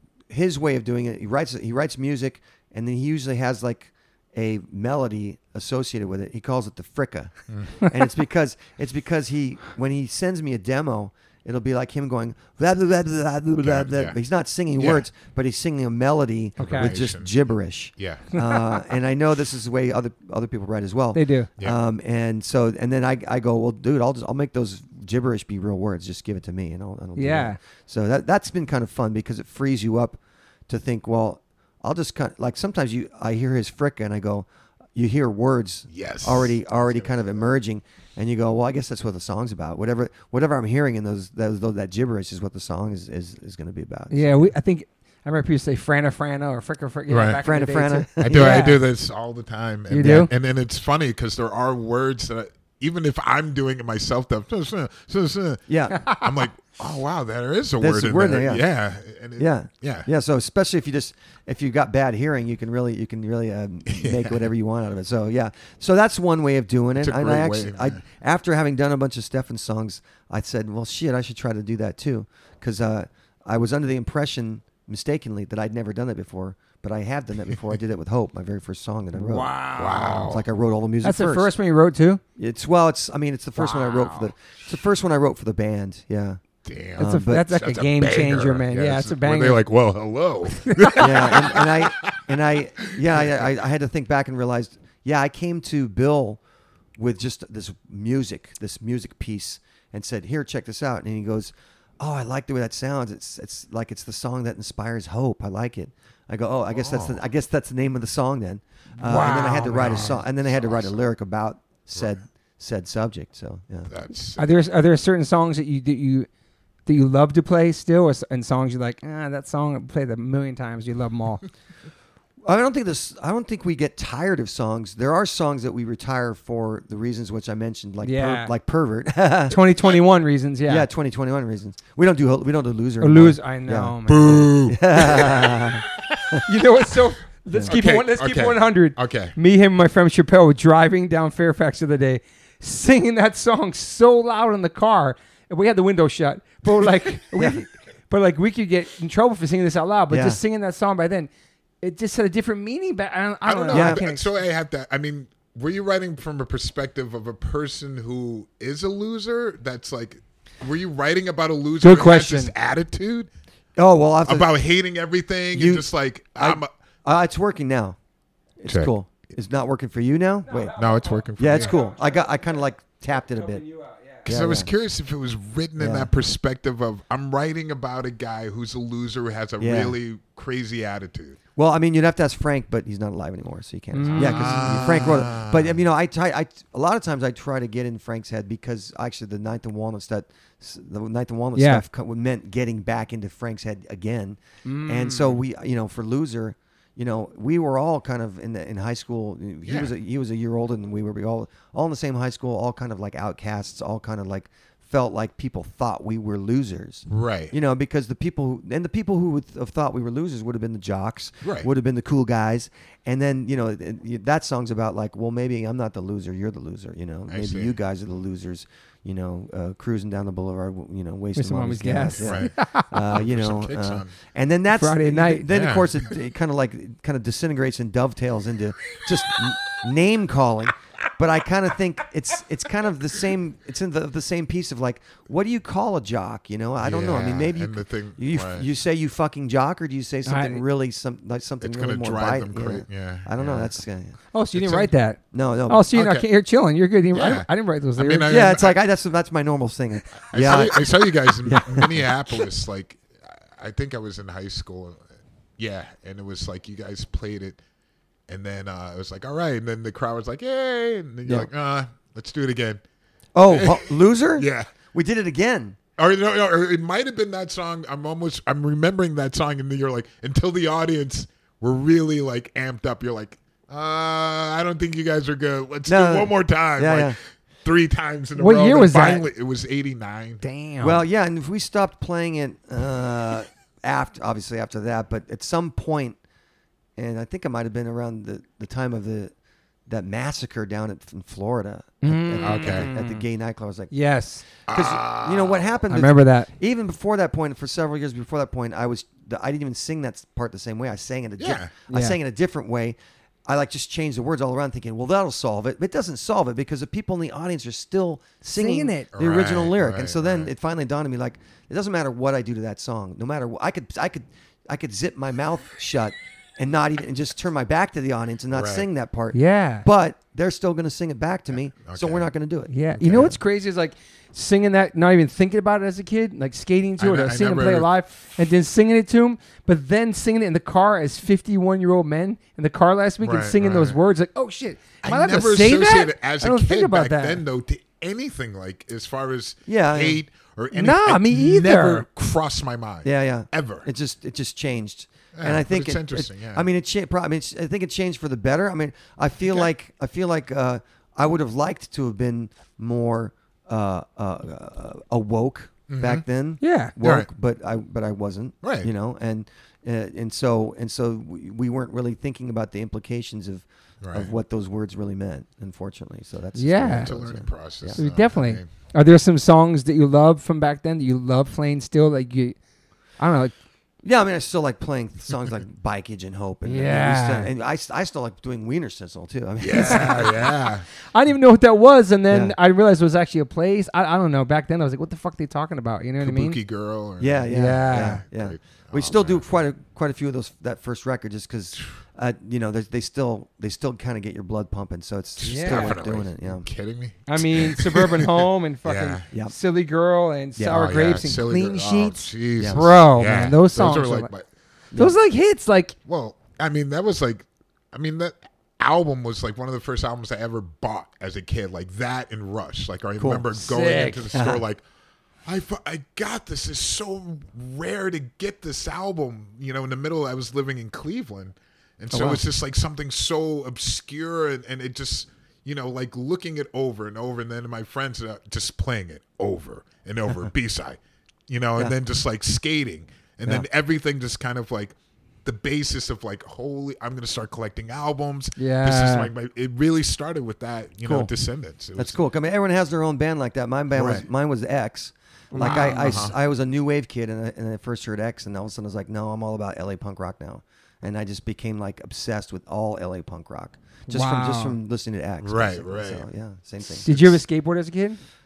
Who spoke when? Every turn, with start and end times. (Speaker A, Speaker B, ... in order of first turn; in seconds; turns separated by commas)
Speaker A: 0.3-44.5, Speaker B: 7.5-7.8, Speaker B: 13.6-14.2, Speaker B: 14.8-15.0, Speaker C: 16.6-16.9, Speaker B: 16.6-17.4, Speaker B: 18.0-18.3, Speaker C: 18.3-18.6, Speaker C: 21.1-21.5, Speaker C: 27.2-27.6, Speaker B: 35.9-37.2, Speaker C: 44.1-48.8, Speaker B: 47.1-47.4, Speaker A: 47.4-48.7, Speaker B: 48.2-60.1, Speaker C: 49.9-50.3, Speaker A: 55.7-56.0, Speaker C: 55.9-56.4, Speaker A: 57.8-58.6, Speaker A: 59.4-79.5, Speaker B: 63.9-64.5, Speaker B: 67.0-68.0, Speaker C: 79.1-80.3, Speaker B: 79.8-80.5, Speaker A: 80.2-81.5, Speaker C: 81.0-82.2, Speaker A: 82.3-86.4, Speaker C: 83.6-84.3, Speaker B: 86.7-92.2, Speaker A: 87.0-87.5, Speaker C: 87.0-89.6, Speaker C: 90.6-91.1, Speaker A: 91.0-96.4, Speaker B: 92.8-93.3, Speaker A: 97.0-113.9, Speaker B: 106.7-107.2, Speaker C: 109.0-110.2, Speaker B: 109.0-111.0, Speaker B: 113.9-114.6, Speaker C: 114.4-116.3, Speaker C: 116.8-121.4, Speaker A: 122.4-129.6, Speaker C: 128.0-128.5, Speaker C: 129.5-130.9, Speaker A: 130.7-136.4, Speaker C: 133.0-134.5, Speaker B: 134.1-136.4, Speaker C: 136.4-151.3, Speaker A: 137.5-137.8, Speaker B: 137.7-139.3, Speaker A: 147.3-147.6, Speaker A: 150.1-150.4, Speaker C: 151.8-154.3, Speaker B: 153.4-163.3, Speaker A: 153.7-154.0, Speaker C: 161.8-162.5, Speaker A: 163.8-164.5, Speaker B: 164.2-166.7, Speaker A: 165.5-168.0, Speaker A: 168.6-170.7, Speaker B: 168.7-168.9, Speaker C: 170.4-172.6, Speaker B: 170.8-171.8, Speaker A: 171.4-173.6, Speaker C: 173.3-174.2, Speaker A: 174.2-174.7, Speaker B: 174.2-181.4, Speaker A: 175.8-176.1, Speaker A: 179.6-179.9, Speaker A: 181.6-244.2, Speaker C: 183.9-184.9, Speaker B: 184.1-185.8, Speaker C: 191.6-191.8, Speaker C: 194.6-195.4, Speaker B: 199.7-199.9, Speaker B: 207.1-207.5, Speaker B: 211.4-211.7, Speaker B: 217.3-217.7, Speaker C: 221.3-222.9, Speaker B: 222.2-224.1, Speaker C: 224.7-225.5, Speaker B: 225.5-226.1, Speaker B: 236.8-238.7, Speaker C: 240.2-240.6, Speaker B: 241.6-243.7, Speaker C: 244.3-248.3, Speaker B: 244.5-244.9, Speaker A: 245.3-245.9, Speaker B: 245.9-246.3, Speaker B: 247.1-248.8, Speaker A: 248.3-252.4, Speaker B: 250.2-255.0, Speaker B: 255.6-257.6, Speaker B: 258.3-262.8, Speaker A: 261.2-261.5, Speaker A: 263.3-265.8, Speaker B: 263.5-264.7, Speaker B: 266.0-280.4, Speaker A: 275.9-277.1, Speaker C: 278.4-279.2, Speaker C: 280.4-281.0, Speaker A: 280.8-286.2, Speaker A: 286.9-289.3, Speaker A: 289.9-293.9, Speaker C: 292.0-293.2, Speaker B: 292.4-292.9, Speaker C: 293.9-294.4, Speaker A: 294.5-323.4, Speaker B: 294.7-295.7, Speaker C: 295.9-296.5, Speaker B: 301.4-301.7, Speaker C: 301.9-302.2, Speaker C: 308.4-309.1, Speaker B: 309.1-310.5, Speaker B: 318.5-318.9, Speaker C: 319.3-319.9, Speaker B: 321.8-322.3, Speaker C: 322.7-337.4, Speaker B: 323.0-323.3, Speaker B: 327.0-327.9, Speaker B: 333.2-334.0, Speaker B: 335.0-343.9, Speaker A: 339.7-340.2, Speaker C: 340.7-342.1, Speaker A: 343.0-368.0, Speaker B: 345.3-346.7, Speaker B: 355.9-356.2, Speaker C: 356.6-356.9, Speaker B: 357.0-357.3, Speaker B: 358.6-358.9, Speaker B: 364.0-364.3, Speaker C: 366.5-367.1, Speaker B: 366.8-368.6, Speaker C: 367.9-372.6, Speaker C: 373.2-373.5, Speaker A: 374.0-380.5, Speaker C: 376.6-377.5, Speaker B: 379.6-380.9, Speaker C: 379.7-380.4, Speaker C: 381.1-386.6, Speaker A: 382.3-382.5, Speaker B: 386.2-389.4, Speaker A: 387.2-396.7, Speaker C: 387.5-388.2, Speaker B: 395.4-399.3, Speaker C: 395.4-396.0, Speaker C: 397.3-401.6, Speaker A: 400.6-400.9, Speaker B: 400.7-404.4, Speaker A: 401.5-402.9, Speaker C: 402.7-404.3, Speaker C: 404.9-405.9, Speaker B: 406.1-414.8, Speaker A: 413.2-413.6, Speaker C: 413.6-414.3, Speaker A: 414.3-414.6, Speaker B: 415.4-434.9, Speaker A: 422.1-422.4, Speaker B: 435.4-442.2, Speaker C: 438.6-439.3, Speaker A: 441.0-441.3, Speaker A: 441.9-457.1, Speaker B: 443.9-444.2, Speaker C: 445.5-446.3, Speaker B: 445.6-446.3, Speaker C: 454.1-454.8, Speaker B: 455.4-456.2, Speaker C: 456.9-458.2, Speaker B: 457.1-457.4